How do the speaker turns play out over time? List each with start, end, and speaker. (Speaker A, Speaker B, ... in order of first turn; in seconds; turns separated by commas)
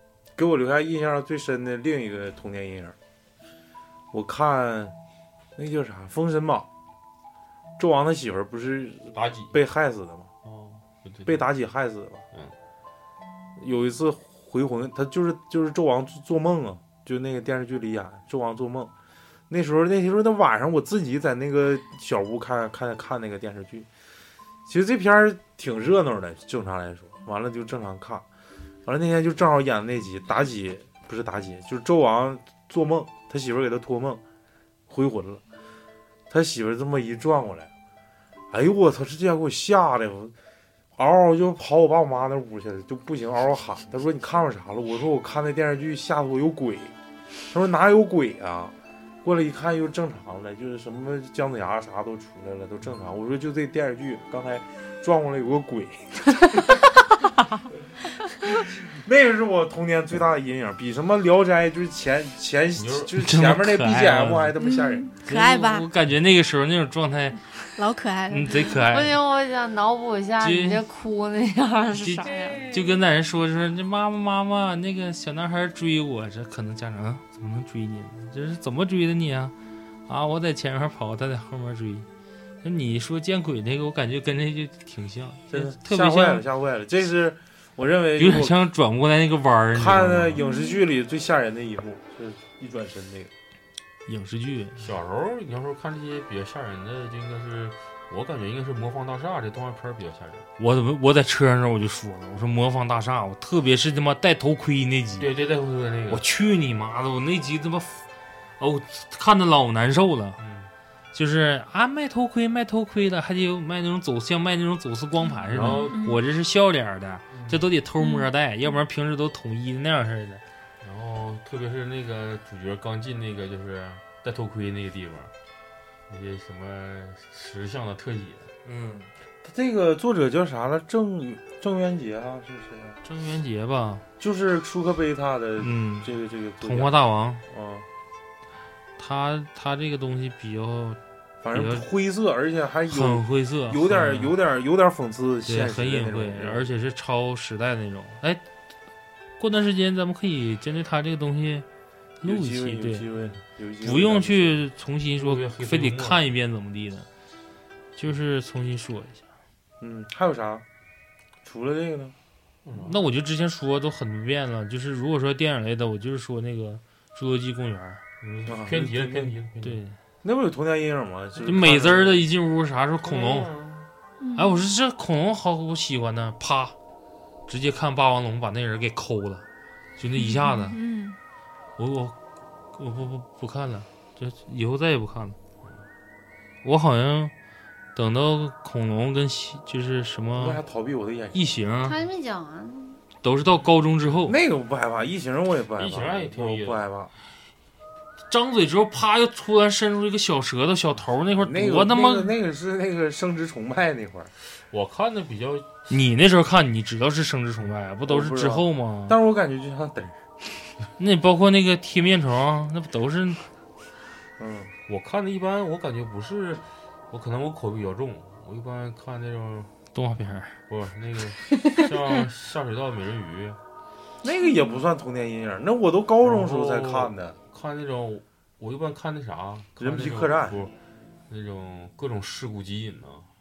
Speaker A: 0.4-3.0, Speaker A: 4.1-5.0, Speaker A: 5.6-6.7, Speaker A: 7.8-10.3, Speaker B: 9.1-9.6, Speaker B: 10.4-11.5, Speaker A: 11.3-12.2, Speaker A: 13.6-18.9, Speaker A: 19.5-23.9, Speaker A: 24.7-28.2, Speaker A: 28.9-34.2, Speaker A: 34.9-35.4, Speaker A: 36.3-37.7, Speaker A: 38.5-40.3, Speaker A: 41.0-46.9, Speaker A: 47.5-56.8, Speaker A: 58.5-65.1, Speaker B: 62.8-63.1, Speaker C: 63.2-64.6, Speaker D: 64.6-65.9, Speaker C: 65.3-67.4, Speaker D: 67.8-68.8, Speaker C: 68.3-69.2, Speaker E: 68.7-72.7, Speaker C: 70.4-70.8, Speaker C: 71.9-79.5, Speaker C: 80.1-82.1, Speaker C: 82.6-86.5, Speaker A: 85.5-88.6, Speaker C: 88.2-90.4, Speaker A: 89.7-93.3, Speaker D: 90.4-90.8, Speaker C: 94.1-94.8, Speaker B: 94.8-100.5, Speaker C: 100.6-105.3, Speaker B: 105.2-106.2, Speaker C: 106.1-108.0, Speaker C: 108.6-110.4, Speaker B: 110.4-110.7, Speaker C: 111.1-120.4, Speaker D: 115.3-116.2, Speaker B: 115.5-116.1, Speaker B: 117.3-117.7, Speaker D: 118.0-118.3, Speaker B: 120.8-125.3, Speaker B: 126.1-128.5, Speaker C: 128.7-129.1, Speaker A: 129.4-133.0, Speaker C: 133.1-134.0, Speaker A: 134.2-136.9, Speaker C: 135.6-136.1, Speaker C: 136.6-137.4, Speaker A: 137.5-137.9, Speaker C: 139.0-141.0, Speaker A: 141.4-146.7, Speaker C: 141.5-141.8, Speaker C: 142.9-144.3, Speaker C: 145.4-148.4, Speaker C: 149.4-151.7, Speaker C: 152.2-153.1, Speaker A: 152.2-154.6, Speaker C: 153.8-157.1, Speaker B: 155.2-156.2, Speaker C: 158.0-159.2, Speaker A: 159.8-160.7, Speaker A: 161.4-162.2, Speaker B: 162.7-163.0, Speaker C: 162.8-168.0, Speaker B: 168.2-169.8, Speaker A: 168.5-169.3, Speaker C: 169.6-169.9, Speaker A: 170.2-172.2, Speaker C: 171.4-173.5, Speaker B: 173.0-173.8, Speaker D: 174.2-174.7, Speaker C: 174.4-176.8, Speaker C: 177.5-179.4, Speaker C: 180.0-180.8, Speaker D: 180.2-181.2, Speaker C: 181.8-182.2, Speaker C: 182.8-185.4, Speaker C: 186.6-187.3, Speaker C: 187.9-190.6, Speaker A: 190.4-191.4, Speaker C: 191.3-192.0, Speaker E: 191.8-193.0, Speaker C: 193.2-194.4, Speaker A: 194.2-197.1, Speaker B: 195.8-196.8, Speaker C: 198.3-202.3, Speaker A: 201.4-204.3, Speaker B: 204.7-205.7, Speaker C: 205.9-209.2, Speaker A: 208.1-210.2, Speaker C: 211.0-213.4, Speaker A: 214.4-214.7, Speaker B: 214.9-219.7, Speaker C: 219.9-220.6, Speaker B: 220.7-223.6, Speaker A: 224.2-227.4, Speaker D: 224.4-224.8, Speaker B: 226.2-230.7, Speaker A: 229.8-230.7, Speaker B: 231.3-233.3